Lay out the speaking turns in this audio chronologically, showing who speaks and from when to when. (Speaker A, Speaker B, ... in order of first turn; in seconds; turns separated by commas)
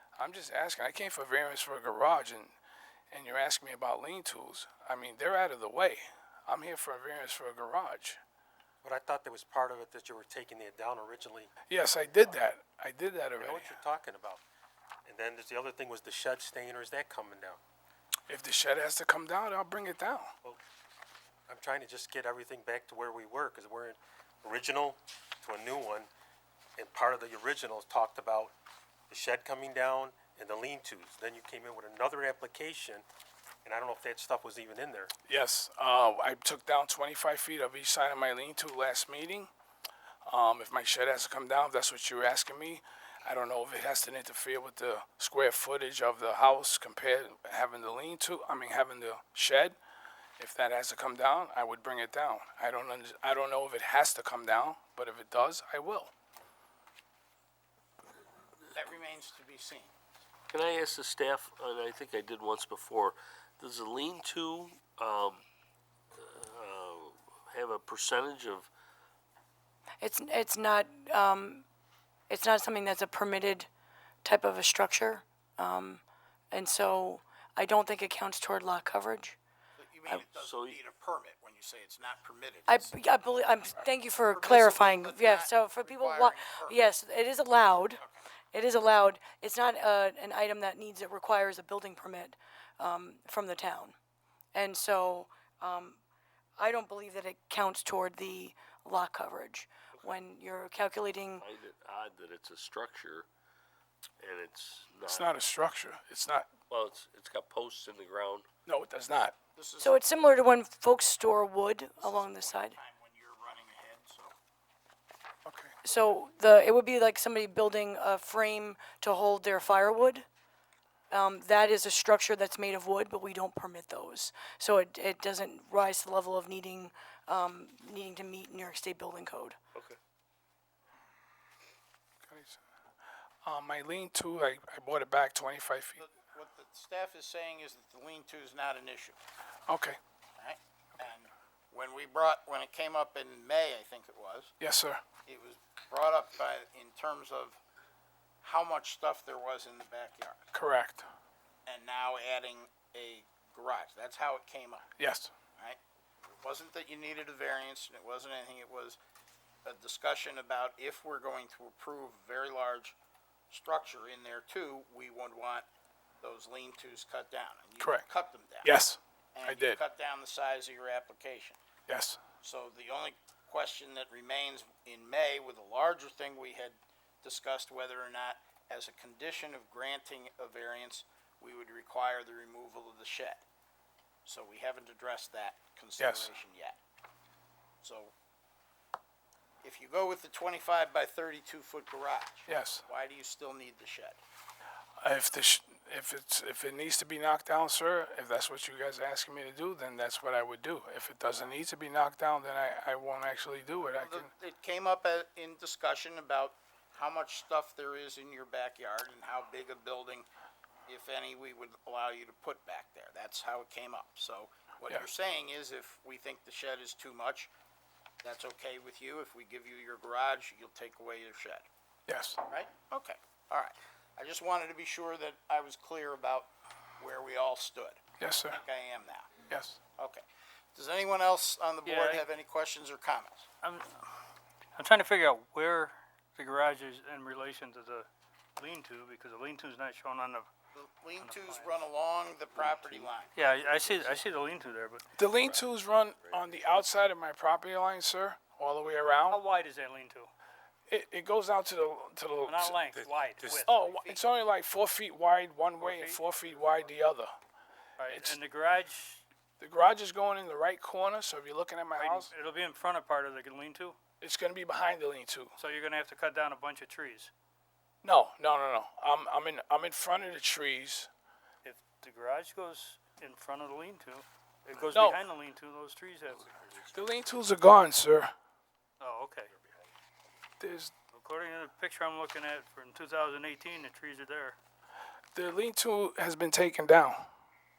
Speaker A: 0.2-2.5, Speaker A: 3.1-8.2, Speaker B: 8.8-11.5, Speaker A: 11.7-13.8, Speaker B: 13.4-14.4, Speaker B: 15.1-17.6, Speaker A: 18.3-20.3, Speaker B: 21.5-26.1, Speaker B: 26.8-28.5, Speaker B: 29.1-33.0, Speaker B: 33.6-35.1, Speaker A: 35.3-39.5, Speaker A: 40.2-49.8, Speaker A: 50.4-56.1, Speaker C: 58.7-59.9, Speaker D: 60.5-65.4, Speaker D: 66.2-68.7, Speaker E: 70.0-71.6, Speaker E: 72.3-73.7, Speaker E: 74.2-79.3, Speaker C: 79.8-83.0, Speaker D: 80.4-80.8, Speaker E: 82.7-88.0, Speaker C: 84.3-86.8, Speaker C: 88.0-88.2, Speaker E: 88.5-93.9, Speaker E: 94.5-96.0, Speaker E: 96.6-101.5, Speaker D: 101.4-103.3, Speaker D: 104.2-105.3, Speaker A: 105.0-106.5, Speaker D: 106.7-108.5, Speaker A: 108.7-109.3, Speaker C: 109.5-110.3, Speaker E: 109.8-112.8, Speaker C: 112.0-114.3, Speaker A: 115.4-115.7, Speaker E: 115.8-120.2, Speaker E: 121.1-129.6, Speaker A: 132.2-132.6, Speaker A: 133.4-136.0, Speaker C: 136.0-139.2, Speaker A: 139.7-140.0, Speaker C: 140.4-144.5, Speaker A: 144.6-145.0, Speaker C: 145.2-147.6, Speaker C: 148.4-150.5, Speaker A: 150.5-151.1, Speaker C: 151.7-154.8, Speaker A: 155.0-155.3, Speaker C: 156.4-159.0, Speaker C: 159.6-162.9, Speaker C: 163.5-165.7, Speaker C: 166.2-168.7, Speaker A: 168.6-169.8, Speaker C: 169.3-171.6, Speaker A: 171.9-172.2, Speaker C: 172.4-183.4, Speaker C: 184.2-186.8, Speaker A: 186.0-186.3, Speaker C: 187.8-188.1, Speaker C: 189.6-194.2, Speaker A: 192.5-192.8, Speaker A: 195.0-204.3, Speaker C: 203.9-210.3, Speaker C: 210.9-217.5, Speaker C: 218.2-221.7, Speaker A: 222.1-222.4, Speaker C: 222.5-229.3, Speaker A: 228.2-228.6, Speaker A: 229.5-229.8, Speaker C: 230.0-230.2, Speaker C: 230.7-233.5, Speaker F: 231.8-232.2, Speaker F: 233.6-234.0, Speaker F: 234.8-240.5, Speaker C: 240.7-243.3, Speaker F: 241.2-241.8, Speaker F: 243.3-245.0, Speaker A: 245.2-249.4, Speaker F: 249.1-250.3, Speaker A: 250.9-252.8, Speaker F: 252.4-253.7, Speaker C: 253.6-254.3, Speaker A: 253.6-257.3, Speaker F: 255.8-256.2, Speaker F: 258.0-259.2, Speaker A: 258.1-258.4, Speaker A: 259.6-262.3, Speaker F: 262.0-263.9, Speaker A: 264.2-265.5, Speaker F: 265.6-267.3, Speaker A: 268.0-271.1, Speaker F: 271.6-276.7, Speaker A: 274.9-275.2, Speaker A: 276.9-278.3, Speaker F: 279.0-279.5, Speaker A: 280.6-280.9, Speaker F: 281.1-284.6, Speaker A: 285.3-287.3